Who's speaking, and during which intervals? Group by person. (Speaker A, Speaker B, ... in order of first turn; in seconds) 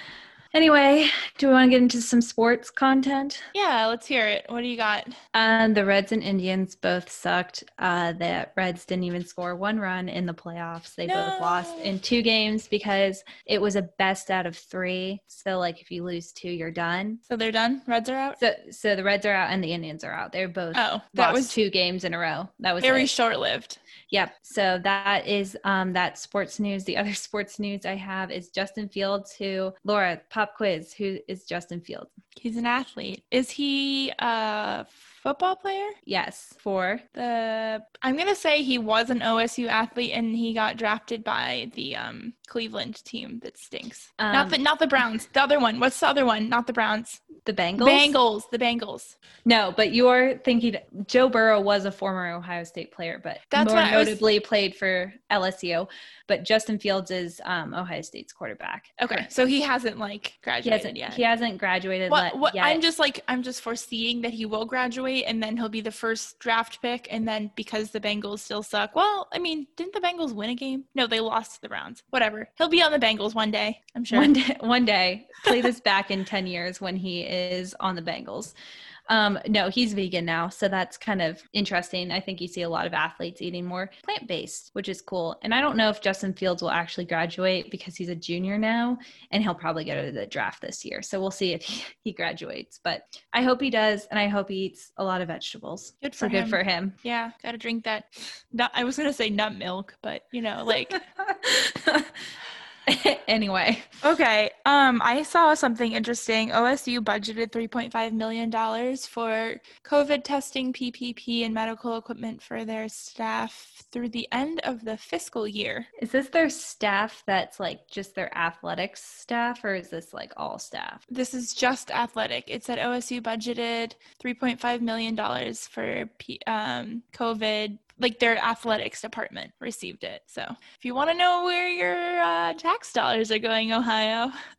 Speaker A: 0.5-3.5, 5.3-17.2, 18.4-23.1, 24.1-32.1, 36.0-37.0, 44.2-44.6, 47.4-48.1, 49.4-59.3, 60.6-62.8, 74.1-78.5, 79.1-97.0, 100.7-102.3, 102.9-103.9, 116.0-121.0
Speaker B: 3.5-5.2, 11.0-11.9, 17.3-18.4, 20.7-21.6, 22.8-23.8, 32.4-36.0, 37.1-49.1, 53.5-54.2, 59.0-61.2, 62.1-74.3, 96.0-101.0, 104.0-115.9, 121.1-134.4